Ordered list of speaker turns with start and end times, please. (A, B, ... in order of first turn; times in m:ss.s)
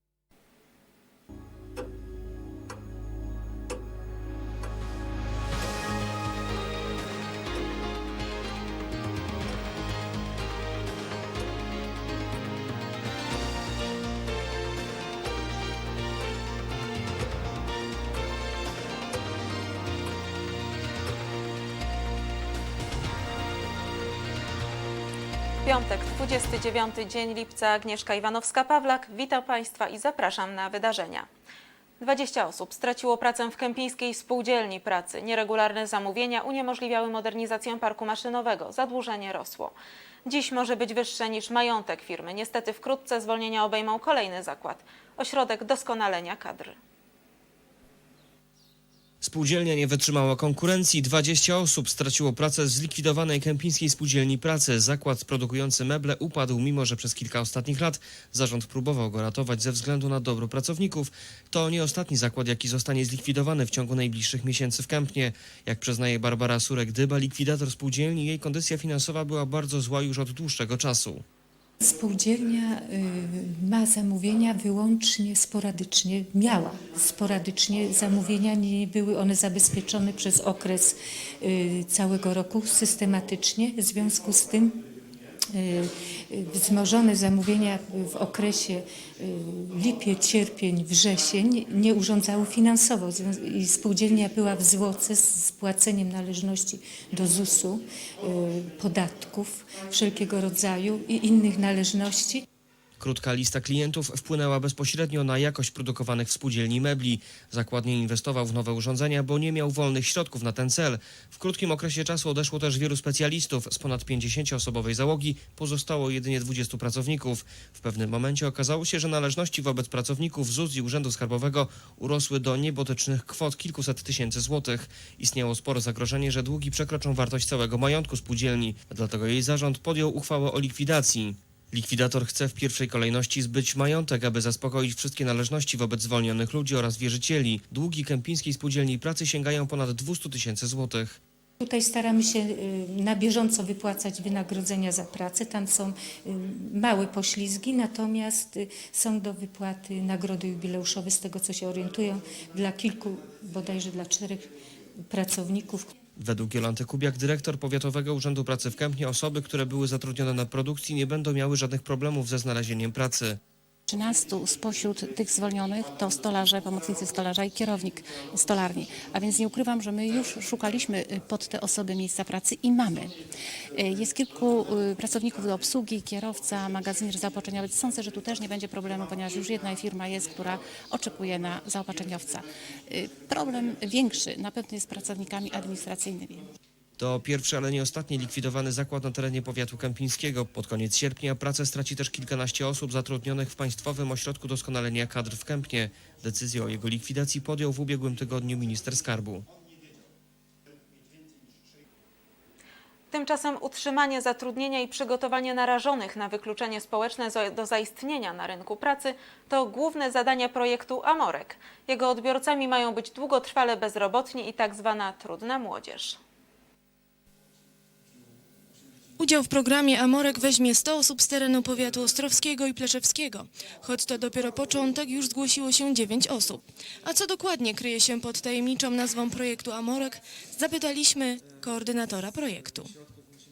0:25.6-0:31.3 A
0:32.0-0:39.7 A
0:40.2-0:46.8 A
0:49.2-1:11.2 B
1:11.8-1:24.8 C
1:25.5-1:42.4 C
1:43.0-2:21.2 B
2:21.6-2:34.5 C
2:35.1-2:35.9 C
2:36.2-2:43.4 B
2:43.9-3:06.5 D
3:07.0-3:19.4 B
3:23.1-3:36.2 A
3:39.2-3:52.9 E